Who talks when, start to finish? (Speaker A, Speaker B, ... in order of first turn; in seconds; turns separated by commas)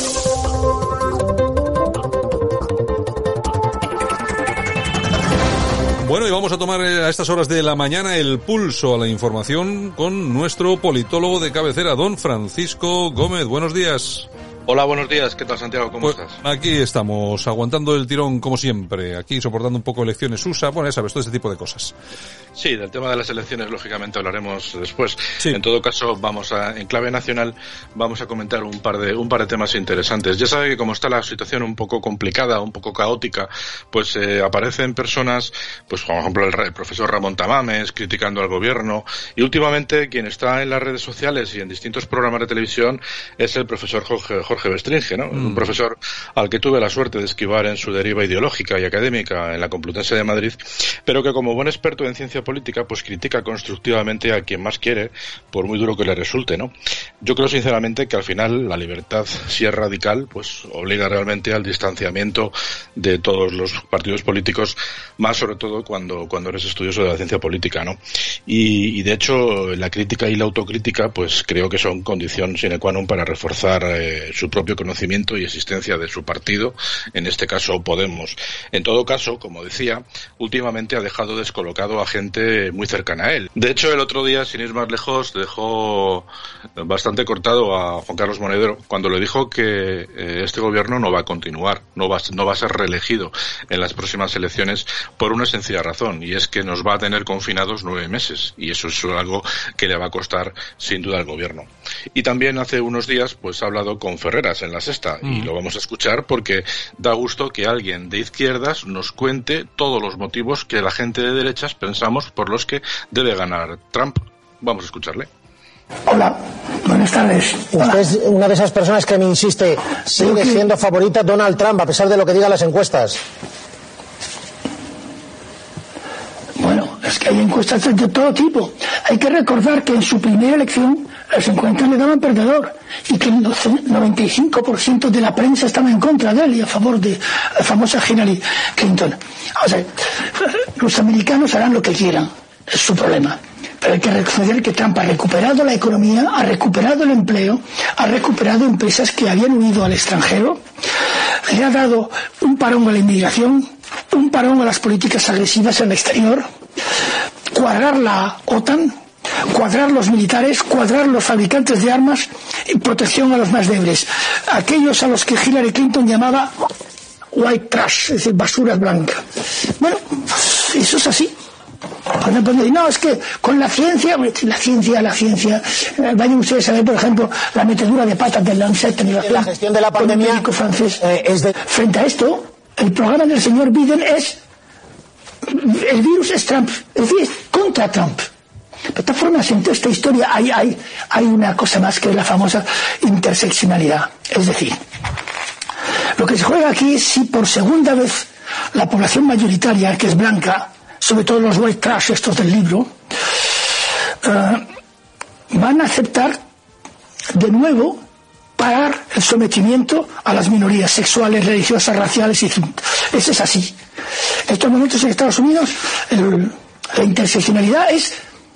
Speaker A: 6.0-14.3, Speaker B: 14.7-16.4, Speaker A: 16.0-21.9, Speaker B: 22.6-115.3, Speaker A: 45.4-45.7, Speaker C: 116.1-118.0, Speaker D: 117.7-123.2, Speaker C: 120.2-120.6, Speaker C: 126.6-150.6, Speaker C: 151.5-156.4, Speaker C: 157.5-158.9, Speaker C: 159.5-166.5, Speaker C: 167.3-169.2, Speaker C: 169.8-171.3, Speaker C: 172.2-181.0, Speaker D: 179.2-180.4, Speaker D: 181.0-181.5, Speaker C: 181.6-184.4, Speaker C: 185.5-188.2, Speaker C: 188.9-194.8, Speaker C: 196.2-202.9, Speaker C: 204.2-204.6, Speaker C: 205.5-206.4, Speaker C: 207.3-208.0, Speaker C: 208.6-213.8, Speaker C: 214.5-218.1